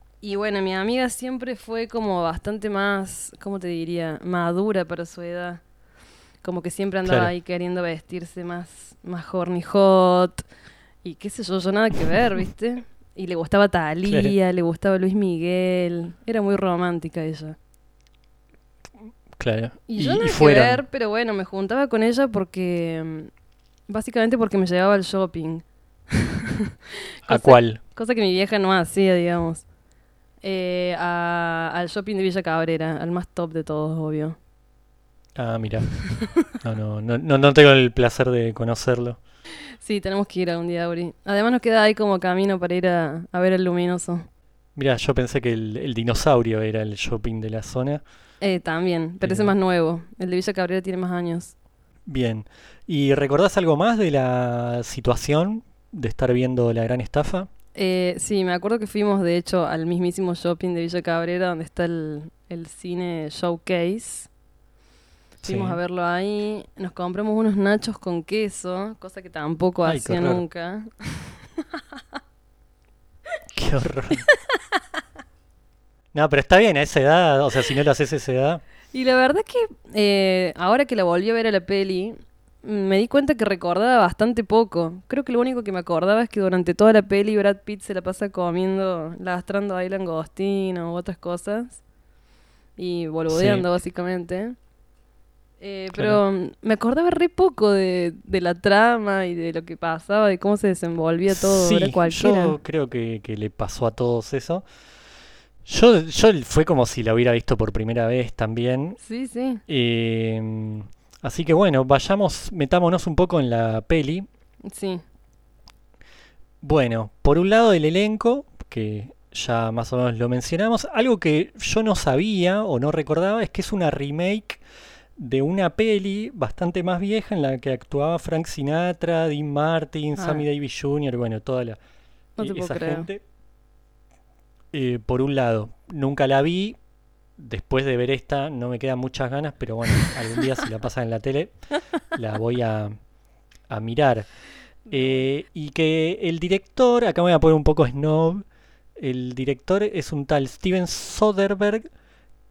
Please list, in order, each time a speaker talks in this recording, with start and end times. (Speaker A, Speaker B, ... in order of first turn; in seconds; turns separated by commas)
Speaker A: 0.2-5.6, Speaker A: 6.4-10.5, Speaker B: 7.0-7.3, Speaker A: 11.0-17.6, Speaker B: 14.1-14.3, Speaker B: 19.4-20.8, Speaker A: 19.9-23.3, Speaker A: 23.9-26.3, Speaker A: 27.2-29.6, Speaker B: 27.3-27.8, Speaker A: 30.4-34.4, Speaker B: 35.4-36.0, Speaker B: 36.5-39.2, Speaker A: 39.8-44.3, Speaker B: 44.8-48.0, Speaker A: 48.4-51.5, Speaker B: 49.2-49.5, Speaker B: 52.1-57.5, Speaker A: 57.8-64.3, Speaker B: 65.4-65.8, Speaker A: 65.4-71.4, Speaker B: 69.8-70.4, Speaker B: 73.5-74.2, Speaker B: 76.1-78.6, Speaker A: 78.9-91.8, Speaker A: 92.8-94.6, Speaker B: 93.3-93.7, Speaker A: 95.6-102.6, Speaker B: 95.9-96.2, Speaker B: 101.3-104.7, Speaker B: 105.7-109.0, Speaker A: 109.0-109.6, Speaker B: 109.7-114.3, Speaker A: 114.7-115.0, Speaker B: 116.6-124.6, Speaker B: 125.2-131.8, Speaker A: 130.2-130.4, Speaker A: 132.4-133.1, Speaker B: 132.4-133.2, Speaker B: 134.7-136.8, Speaker B: 137.4-141.6, Speaker B: 142.1-143.0, Speaker B: 143.7-144.3, Speaker A: 144.9-145.3, Speaker B: 144.9-148.4, Speaker B: 149.0-151.9